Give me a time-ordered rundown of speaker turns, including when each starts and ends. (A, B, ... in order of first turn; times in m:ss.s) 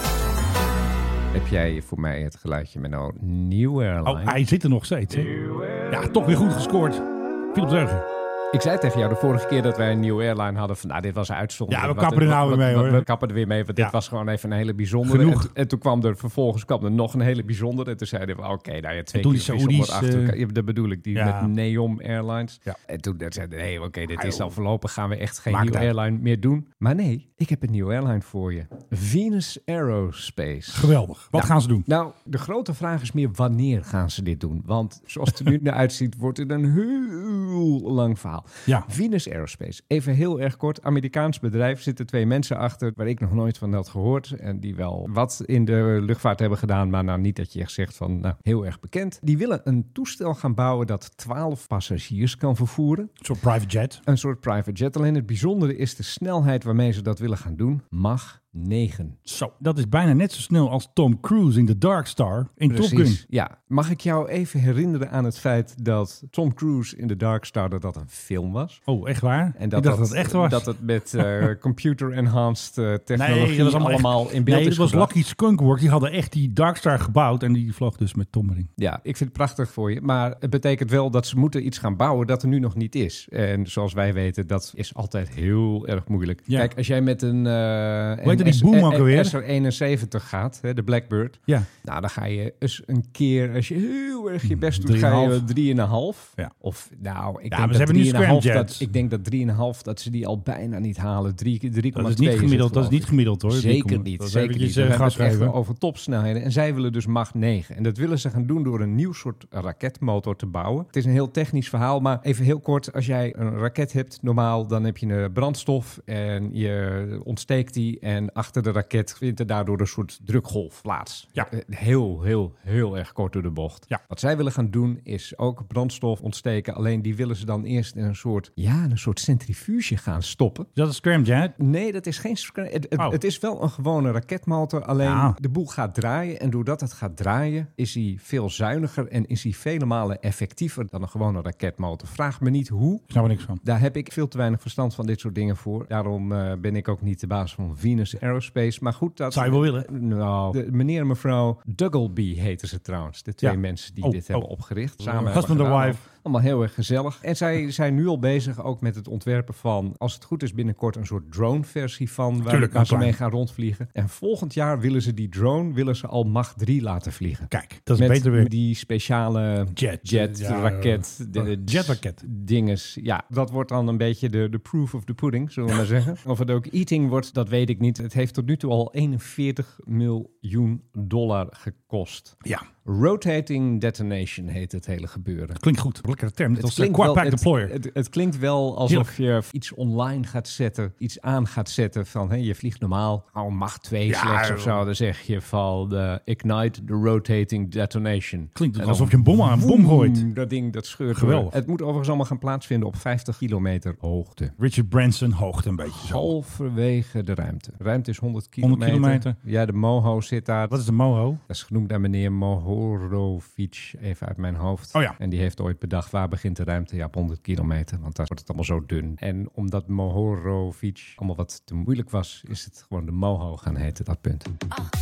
0:01.3-0:04.4 A
0:04.0-0:05.3 B
0:05.9-0:08.1 B
0:08.5-0:53.1 A
0:11.7-0:13.1 B
0:15.0-0:15.5 B
0:19.1-0:20.4 B
0:21.1-0:21.5 B
0:24.2-0:24.5 B
0:25.5-0:25.9 B
0:30.7-0:31.8 B
0:53.2-0:54.0 B
0:54.0-0:59.2 A
0:59.3-1:03.2 B
1:02.7-1:08.8 A
1:08.9-1:11.5 B
1:09.6-1:15.1 A
1:13.2-1:18.7 B
1:18.8-2:10.7 A
1:28.2-1:29.4 B
1:34.4-1:35.5 B
1:37.5-1:38.9 B
1:42.0-1:45.5 B
2:10.8-2:11.6 B
2:11.6-2:23.1 A
2:15.0-2:15.4 B
2:23.1-2:23.6 B
2:23.6-3:05.6 A
2:29.3-2:29.9 B
2:33.4-2:34.5 B
2:35.0-2:36.0 B
2:42.5-2:43.2 B
2:47.5-2:48.5 B
2:49.8-2:52.2 B
3:05.6-3:07.7 B
3:06.6-3:24.6 A
3:14.1-3:14.8 B
3:18.6-3:20.3 B
3:21.1-3:21.6 B
3:24.6-3:26.3 B
3:26.0-3:30.8 A
3:28.6-3:29.4 B
3:30.7-3:31.4 B
3:31.5-3:44.6 A